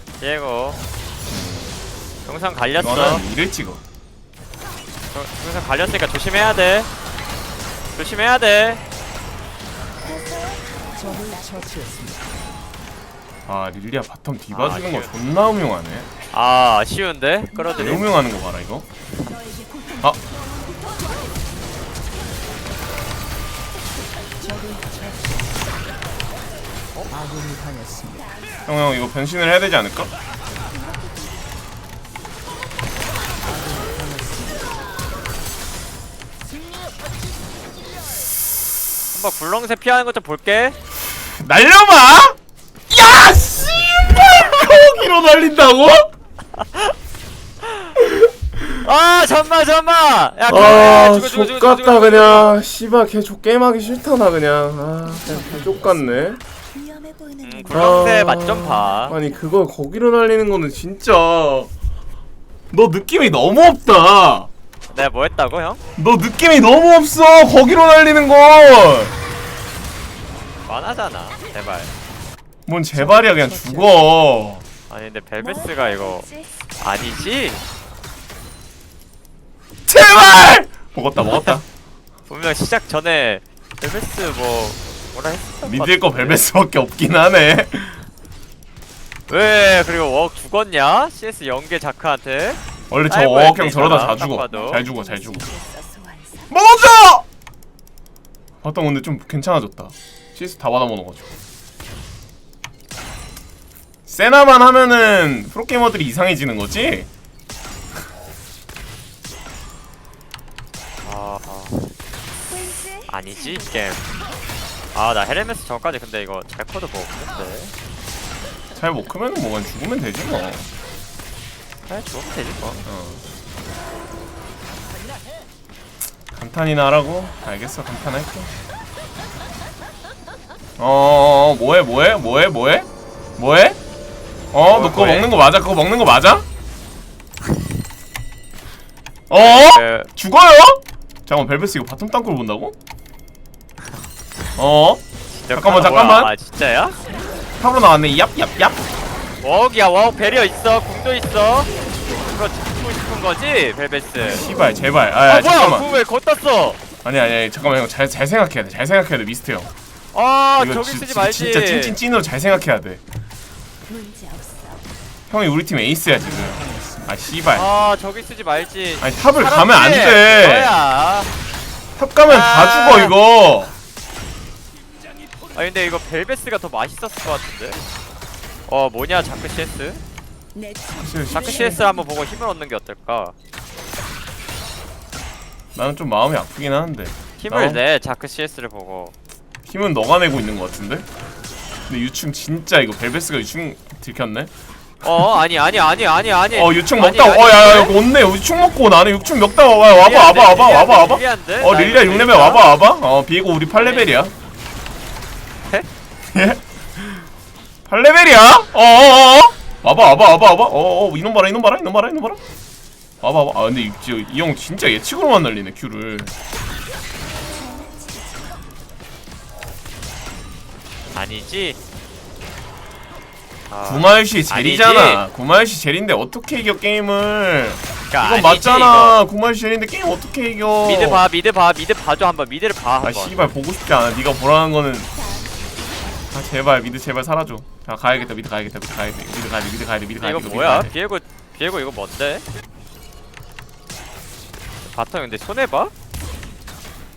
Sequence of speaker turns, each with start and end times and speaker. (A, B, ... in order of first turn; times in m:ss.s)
0:00.2-0:00.8 A
0:01.3-0:01.8 B
0:02.3-0:03.2 A
0:02.8-0:03.8 B
0:05.1-0:06.9 A
0:08.0-0:08.8 A
0:10.0-0:11.8 C
0:11.0-0:12.5 D
0:13.5-0:16.1 B
0:14.5-0:15.1 A
0:16.3-0:18.2 A
0:17.5-0:18.1 C
0:17.7-0:18.9 B
0:19.3-0:20.0 D
0:19.9-0:21.3 C
0:24.0-0:24.5 C
0:24.4-0:25.8 D
0:27.1-0:28.4 D
0:28.2-0:28.7 C
0:28.6-0:30.1 B
0:30.6-0:31.5 C
0:33.4-0:35.0 D
0:39.1-0:40.8 A
0:41.4-0:42.4 B
0:42.9-0:46.1 B
0:46.6-0:46.9 A
0:47.6-0:48.0 A
0:48.0-0:48.6 B
0:48.8-0:52.5 A
0:50.5-0:56.4 B
0:55.0-0:56.4 D
0:56.5-0:59.5 C
0:57.4-0:59.2 A
0:57.7-1:01.7 B
1:02.7-1:04.5 B
1:04.9-1:05.8 A
1:06.0-1:09.1 B
1:10.7-1:11.9 A
1:12.7-1:14.6 B
1:12.9-1:14.0 D
1:14.9-1:16.3 A
1:15.4-1:17.6 C
1:16.8-1:17.6 A
1:19.9-1:21.6 B
1:21.2-1:21.6 A
1:22.3-1:26.4 A
1:25.6-1:28.0 B
1:29.3-1:34.8 A
1:32.9-1:35.5 B
1:33.7-1:36.5 C
1:36.5-1:37.2 B
1:38.6-1:41.3 B
1:44.1-1:47.1 B
1:51.0-1:51.9 A
1:52.4-1:54.5 C
1:53.1-1:54.0 A
1:54.9-1:57.7 A
1:58.8-2:00.7 B
2:01.9-2:02.8 A
2:02.8-2:03.2 B
2:06.3-2:08.5 B
2:10.8-2:13.8 B
2:14.5-2:16.4 B
2:14.7-2:15.3 A
2:19.3-2:22.8 B
2:19.3-2:20.1 A
2:24.6-2:26.3 B
2:25.4-2:27.0 A
2:27.6-2:28.8 B
2:29.4-2:34.4 A
2:34.2-2:35.9 B
2:35.3-2:36.8 A
2:37.0-2:39.7 B
2:40.1-2:42.0 A
2:40.6-2:43.0 B
2:43.9-2:44.9 C
2:45.3-2:47.7 B
2:46.2-2:47.1 D
2:47.5-2:51.3 A
2:49.0-2:50.8 B
2:52.0-2:53.7 B
2:52.3-2:53.2 A
2:55.5-2:57.8 A
2:58.7-3:00.0 A
3:00.5-3:02.3 C
3:01.0-3:01.8 B
3:01.3-3:03.3 A
3:05.8-3:07.8 B
3:07.4-3:09.1 A
3:09.6-3:11.1 B
3:11.9-3:14.5 B
3:15.0-3:18.0 A
3:16.5-3:24.3 B
3:19.2-3:19.8 C
3:19.8-3:22.8 A
3:23.8-3:24.1 A
3:26.3-3:27.3 B
3:27.9-3:32.4 B
3:33.2-3:36.3 B
3:37.3-3:38.8 C
3:41.1-3:41.8 A
3:43.7-3:45.2 A
3:43.8-3:51.2 B
3:48.1-3:49.2 A
3:50.8-3:53.5 A
3:53.0-3:55.1 B
3:55.1-3:56.2 C
3:56.3-4:00.9 B
4:00.2-4:02.4 A
4:04.8-4:05.9 A